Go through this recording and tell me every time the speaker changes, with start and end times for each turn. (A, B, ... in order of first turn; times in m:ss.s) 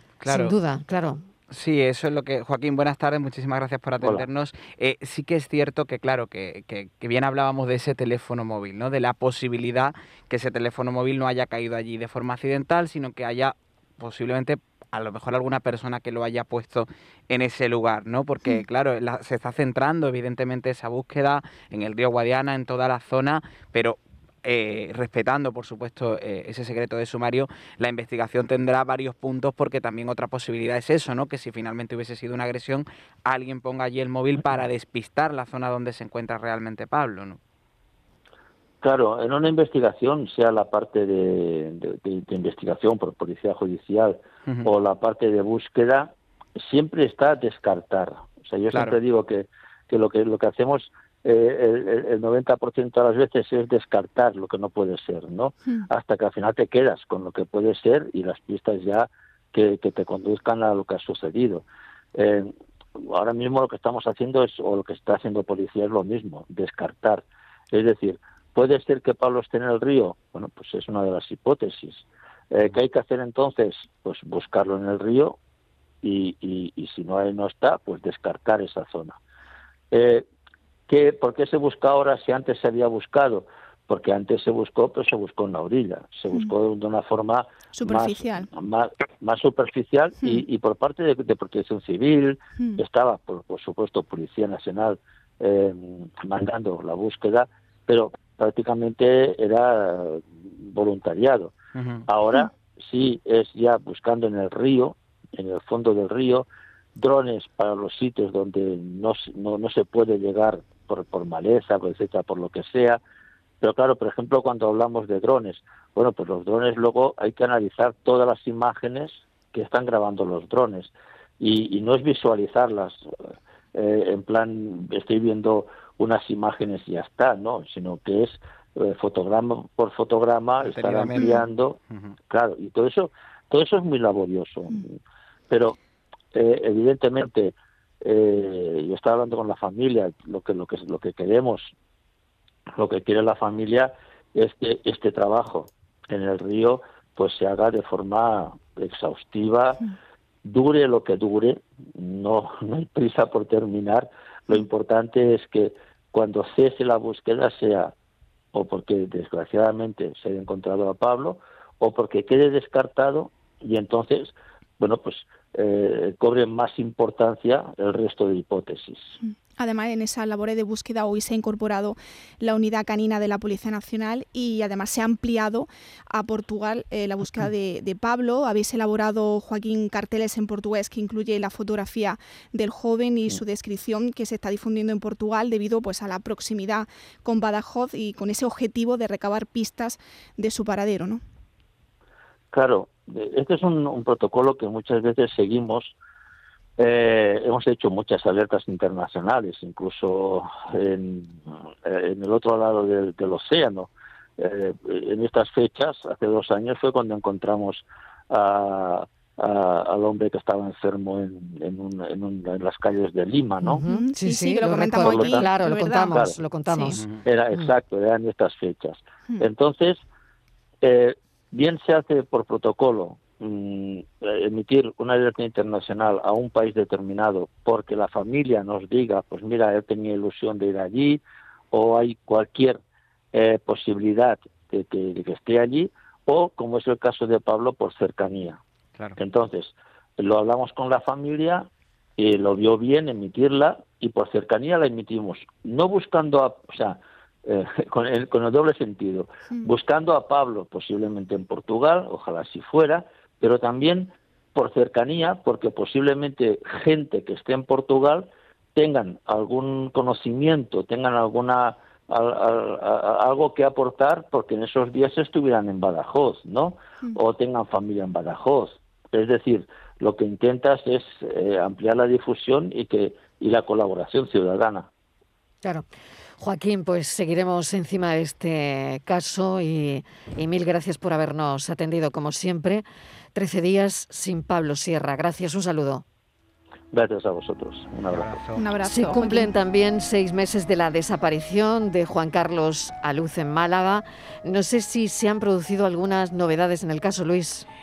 0:00.2-0:00.6 A
0:00.2-0:01.2 B
0:01.5-0:37.4 A
0:04.0-0:04.2 C
0:38.8-1:15.4 C
0:48.7-0:49.0 A
1:16.0-1:19.2 C
1:19.9-1:20.2 C
1:20.9-1:41.5 C
1:27.7-1:28.5 D
1:41.7-1:42.0 A
1:42.1-1:53.0 C
1:53.6-2:03.1 C
2:03.7-2:11.8 C
2:10.6-2:12.1 A
2:11.1-2:11.4 D
2:12.3-2:15.0 C
2:15.5-2:15.8 C
2:16.3-2:21.7 C
2:22.8-2:29.8 C
2:30.4-2:37.9 C
2:38.5-2:49.1 C
2:49.6-3:11.2 D
3:12.5-3:15.9 C
3:16.8-3:33.8 C
3:33.6-3:37.0 B
3:33.8-3:37.0 D
3:34.9-3:35.5 C
3:36.1-3:36.4 C
3:37.2-3:40.0 C
3:40.8-3:52.8 C
3:53.3-3:58.6 C
3:59.2-4:34.9 C
4:36.4-4:46.0 B
4:46.9-4:48.3 C
4:48.1-4:48.6 A
4:48.5-4:49.5 D
4:48.8-4:57.6 B